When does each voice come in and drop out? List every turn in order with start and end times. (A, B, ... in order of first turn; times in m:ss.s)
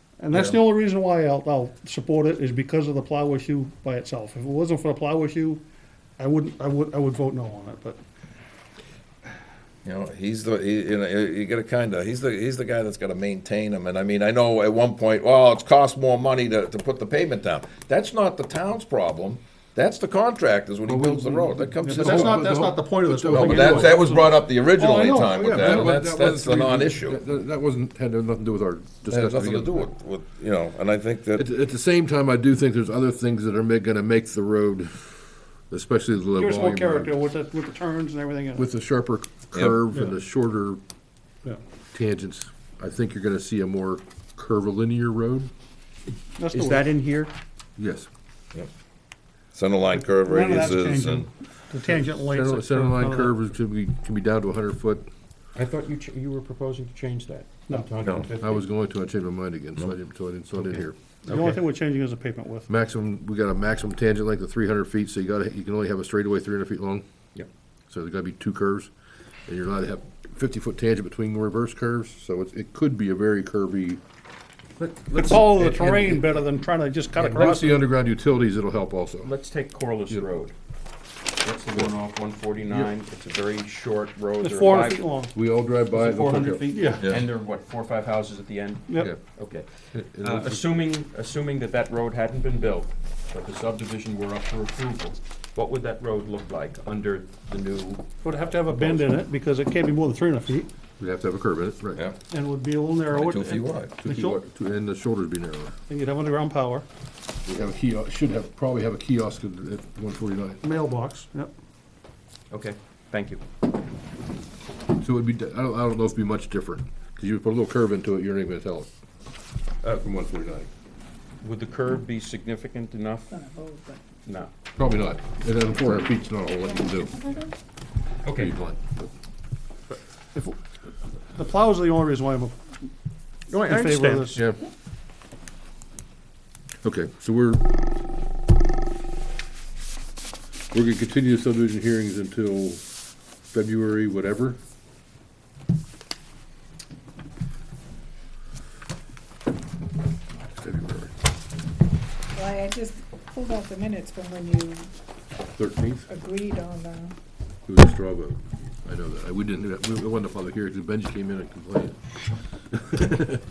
0:00.2-0:05.6 A
0:00.3-0:00.6 B
0:06.2-0:08.0 A
0:09.8-0:27.2 B
0:20.9-0:24.0 C
0:21.8-0:25.8 A
0:25.3-0:29.9 C
0:29.1-0:31.4 B
0:31.4-0:35.1 C
0:35.7-0:37.1 C
0:36.4-0:38.6 A
0:38.6-0:40.8 C
0:41.9-0:45.5 C
0:46.4-0:47.0 A
0:46.5-0:47.3 D
0:47.8-0:48.1 C
0:49.5-0:51.3 B
0:50.0-0:53.3 A
0:51.8-0:55.1 C
0:55.5-0:58.6 D
0:58.0-0:58.3 B
0:58.4-1:01.0 C
1:01.2-1:01.6 D
1:01.2-1:02.7 A
1:02.7-1:07.0 C
1:07.9-1:08.9 C
1:09.5-1:14.0 C
1:14.8-1:16.1 D
1:15.1-1:17.8 A
1:17.2-1:19.3 C
1:19.2-1:20.5 D
1:21.4-1:25.0 D
1:24.4-1:25.3 A
1:25.3-1:26.7 C
1:26.0-1:27.1 A
1:26.7-1:29.6 D
1:29.9-1:30.7 C
1:30.2-1:38.0 D
1:38.2-1:40.7 A
1:38.6-1:39.2 D
1:41.0-1:42.0 C
1:41.9-1:42.2 B
1:42.3-1:44.4 A
1:43.1-1:44.0 B
1:44.0-1:45.7 C
1:45.9-1:46.8 A
1:47.4-1:50.6 C
1:50.6-1:51.5 A
1:52.5-1:53.4 D
1:54.9-1:58.9 C
1:59.9-2:00.7 C
2:01.4-2:03.4 D
2:03.3-2:04.0 E
2:04.2-2:04.5 D
2:04.8-2:07.3 C
2:08.2-2:08.5 D
2:08.3-2:09.1 C
2:11.3-2:12.6 A
2:13.5-2:14.4 D
2:13.5-2:14.4 A
2:16.8-2:17.6 C
2:20.7-2:22.8 C
2:23.5-2:24.6 C
2:30.5-2:31.1 C
2:32.3-2:34.9 E
2:35.5-2:36.1 C
2:36.1-2:37.1 E
2:37.6-2:42.0 C
2:42.7-2:43.4 C